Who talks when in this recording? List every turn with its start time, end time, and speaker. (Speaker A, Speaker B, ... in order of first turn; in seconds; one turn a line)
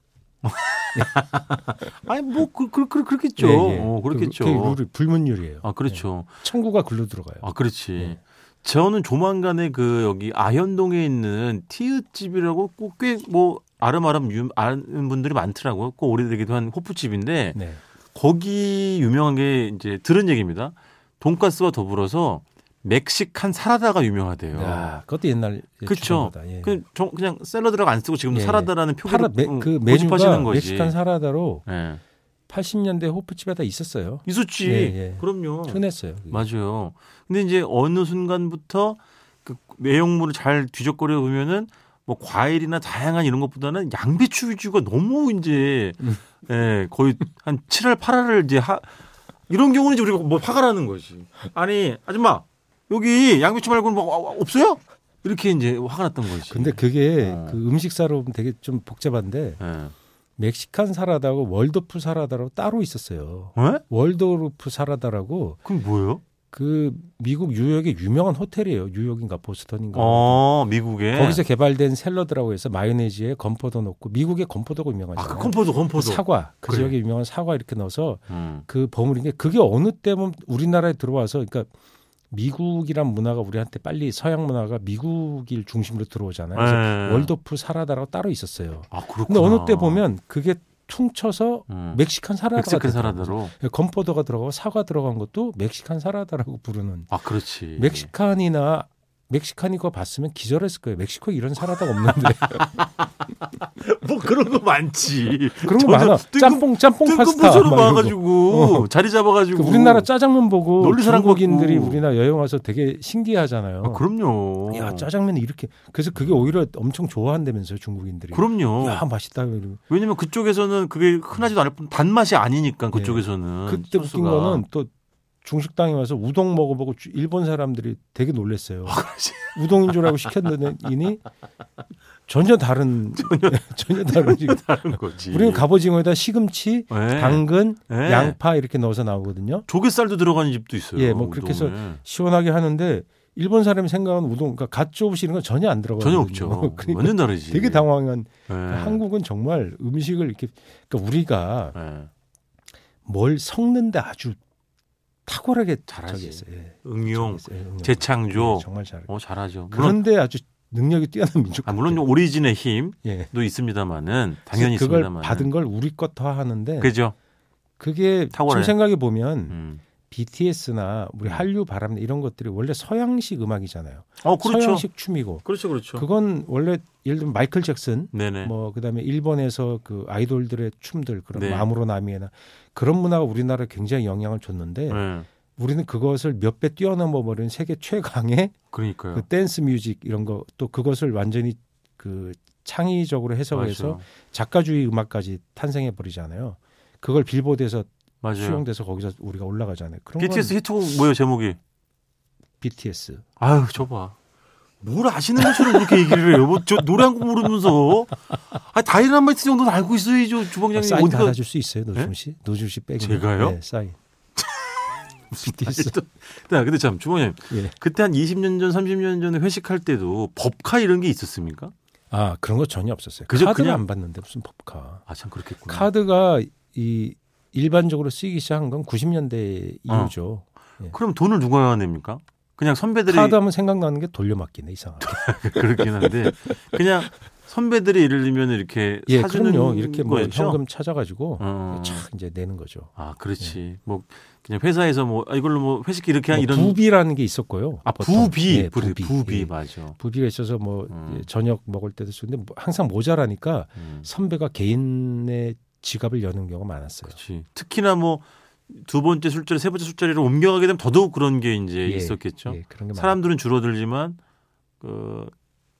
Speaker A: 0.4-4.8
Speaker B: 3.4-7.5
Speaker A: 5.6-6.3
Speaker A: 7.4-17.6
Speaker B: 17.5-17.8
Speaker A: 18.1-24.9
Speaker B: 24.5-26.8
Speaker A: 25.9-30.9
Speaker B: 28.3-31.7
Speaker A: 31.6-32.0
Speaker B: 32.5-36.5
Speaker A: 34.2-35.8
Speaker A: 36.3-48.9
Speaker A: 49.5-57.6
Speaker B: 56.5-59.6
Speaker A: 59.6-59.9
Speaker B: 60.4-65.6
Speaker A: 63.5-63.8
Speaker A: 65.6-66.2
Speaker B: 66.5-70.4
Speaker A: 69.9-71.4
Speaker B: 71.1-81.7
Speaker A: 75.2-76.9
Speaker A: 78.3-78.6
Speaker B: 82.3-97.1
Speaker A: 86.5-87.3
Speaker A: 88.9-90.0
Speaker A: 91.7-92.0
Speaker A: 92.5-93.5
Speaker A: 97.1-98.1
Speaker B: 97.8-102.7
Speaker A: 102.5-110.1
Speaker B: 105.6-108.9
Speaker B: 109.5-114.0
Speaker A: 110.8-112.0
Speaker A: 113.8-115.1
Speaker B: 114.7-119.8
Speaker A: 118.3-119.1
Speaker A: 119.9-124.6
Speaker B: 122.9-124.9
Speaker B: 125.4-131.2
Speaker A: 128.8-130.5
Speaker B: 132.3-139.7
Speaker A: 133.1-135.6
Speaker A: 136.9-138.4
Speaker A: 139.7-142.0
Speaker B: 140.9-151.8
Speaker A: 146.0-147.9
Speaker A: 148.5-149.0
Speaker A: 151.7-152.1
Speaker B: 153.0-154.4
Speaker B: 155.2-159.1
Speaker A: 155.9-160.0
Speaker B: 159.7-162.0
Speaker A: 161.7-165.5
Speaker B: 163.0-163.3
Speaker B: 164.5-166.9
Speaker A: 166.8-167.1
Speaker B: 167.8-169.6
Speaker A: 168.3-168.7
Speaker A: 169.5-169.8
Speaker B: 170.1-185.0
Speaker A: 174.2-174.8
Speaker A: 175.4-176.0
Speaker A: 178.1-178.5
Speaker A: 181.3-181.7
Speaker A: 184.9-185.3
Speaker B: 185.6-188.5
Speaker A: 188.7-189.2
Speaker B: 189.1-200.6
Speaker A: 193.5-194.1
Speaker A: 198.2-198.6
Speaker A: 200.2-201.6
Speaker B: 202.6-203.2
Speaker A: 203.4-204.2
Speaker A: 204.8-211.4
Speaker B: 210.7-214.0
Speaker A: 213.0-213.6
Speaker A: 215.3-221.7
Speaker B: 215.3-215.9
Speaker B: 217.5-217.8
Speaker B: 222.1-225.0
Speaker A: 223.3-223.8
Speaker A: 225.1-225.9
Speaker B: 225.7-230.9
Speaker A: 229.9-230.1
Speaker A: 230.9-233.4
Speaker B: 233.1-236.3
Speaker A: 235.0-240.6
Speaker B: 239.1-243.6
Speaker A: 241.4-242.0
Speaker A: 242.9-246.8
Speaker B: 246.3-257.2
Speaker A: 247.8-250.0
Speaker A: 250.9-251.2
Speaker A: 253.8-254.1
Speaker A: 257.1-264.2
Speaker B: 261.8-263.2
Speaker A: 264.8-265.3